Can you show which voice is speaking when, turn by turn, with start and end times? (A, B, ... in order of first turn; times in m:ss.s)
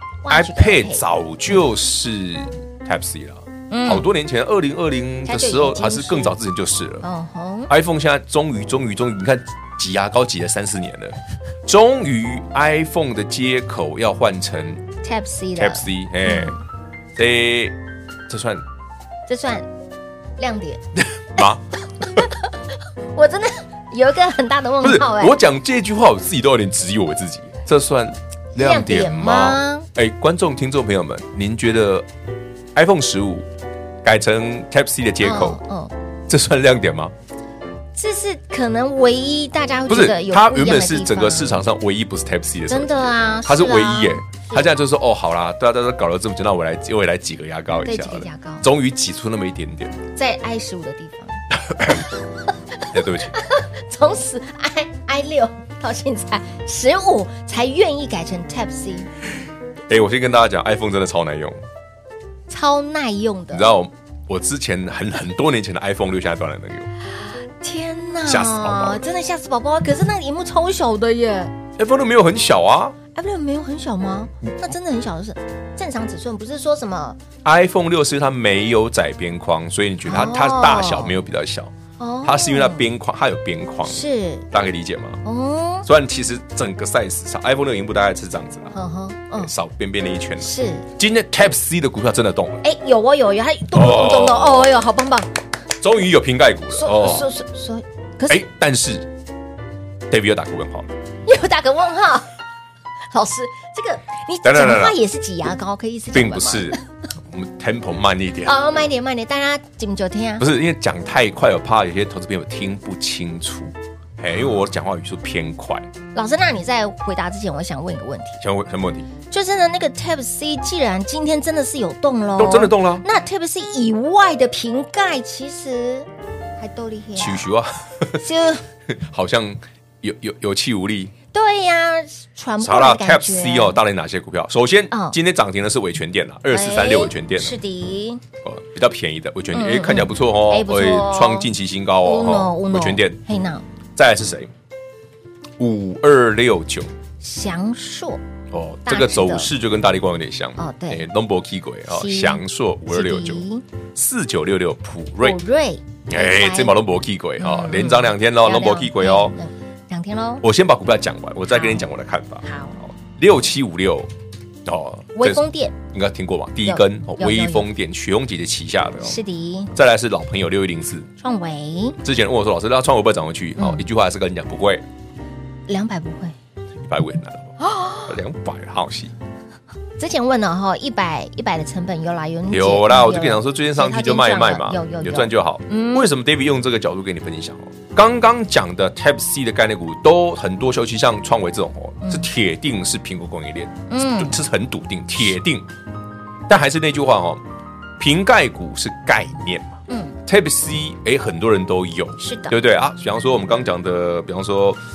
0:00.2-0:01.0 A
0:00.3-0:07.1 B
0:03.7-0:04.1 A
0:05.3-0:06.4 A
0:07.0-0:07.7 A
0:07.7-0:14.9 B
0:15.0-0:16.6 A
0:15.6-0:16.6 B
0:17.2-0:17.8 B
0:18.3-0:18.6 B
0:19.3-0:19.7 A
0:20.4-0:20.8 A
0:21.0-0:21.6 B
0:22.1-0:22.4 A
0:23.1-0:25.4 A
0:24.8-0:32.1 B
0:28.6-0:29.9 A
0:32.7-0:33.5 B
0:34.0-0:35.6 B
0:35.2-0:35.9 A
0:36.3-0:37.1 B
0:38.0-0:41.6 A
0:39.9-0:50.0 B
0:42.7-0:44.7 A
0:47.9-0:48.7 A
0:50.2-0:52.1 A
0:51.7-0:52.0 B
0:52.8-0:59.1 A
0:52.9-0:53.4 B
0:59.9-1:01.6 B
1:02.5-1:03.7 A
1:03.5-1:06.9 B
1:07.6-1:11.5 A
1:08.3-1:09.0 B
1:11.8-1:13.0 B
1:13.2-1:17.2 A
1:17.4-1:21.7 B
1:20.1-1:21.2 A
1:22.0-1:22.9 A
1:22.2-1:25.2 B
1:23.8-1:24.5 A
1:25.2-1:25.9 A
1:25.8-1:28.7 B
1:28.7-1:29.5 A
1:29.4-1:32.6 B
1:30.4-1:30.9 A
1:32.6-1:35.3 A
1:33.7-1:34.7 B
1:35.8-1:37.3 B
1:36.7-1:38.4 A
1:38.3-1:39.1 B
1:40.1-1:40.9 B
1:41.3-1:42.3 A
1:43.1-1:46.8 A
1:44.4-1:45.0 B
1:46.1-1:48.6 B
1:48.4-1:50.5 A
1:50.4-1:55.9 B
1:56.2-1:58.4 A
1:58.4-1:59.1 B
1:59.3-2:06.1 A
2:02.4-2:03.0 B
2:06.6-2:07.5 A
2:07.2-2:08.2 B
2:08.2-2:08.6 A
2:08.9-2:11.1 B
2:11.3-2:13.8 A
2:12.6-2:17.6 B
2:14.9-2:15.2 A
2:16.5-2:18.2 A
2:18.4-2:23.2 B
2:19.5-2:21.5 A
2:22.0-2:23.6 A
2:24.0-2:24.5 B
2:25.6-2:26.9 B
2:27.2-2:28.2 A
2:28.5-2:33.4 B
2:28.9-2:29.5 A
2:30.6-2:31.0 A
2:31.9-2:33.6 A
2:34.0-2:35.4 B
2:35.2-2:36.8 A
2:36.1-2:39.4 B
2:37.4-2:40.4 A
2:40.4-2:44.1 B
2:41.5-2:41.9 A
2:42.4-2:42.8 A
2:44.6-2:49.2 B
2:45.2-2:45.8 A
2:46.6-2:47.7 A
2:49.0-2:49.7 A
2:49.7-2:51.1 B
2:51.2-2:52.0 A
2:52.0-2:54.8 B
2:53.6-2:53.9 A
2:55.7-2:56.4 A
2:56.8-2:57.6 B
2:57.6-2:58.2 A
2:58.1-2:59.1 B
3:00.0-3:06.1 A
3:02.5-3:15.7 B
3:12.0-3:12.3 A
3:13.9-3:14.4 A
3:16.5-3:17.4 B
3:18.0-3:24.8 B
3:19.9-3:20.2 A
3:22.2-3:22.6 A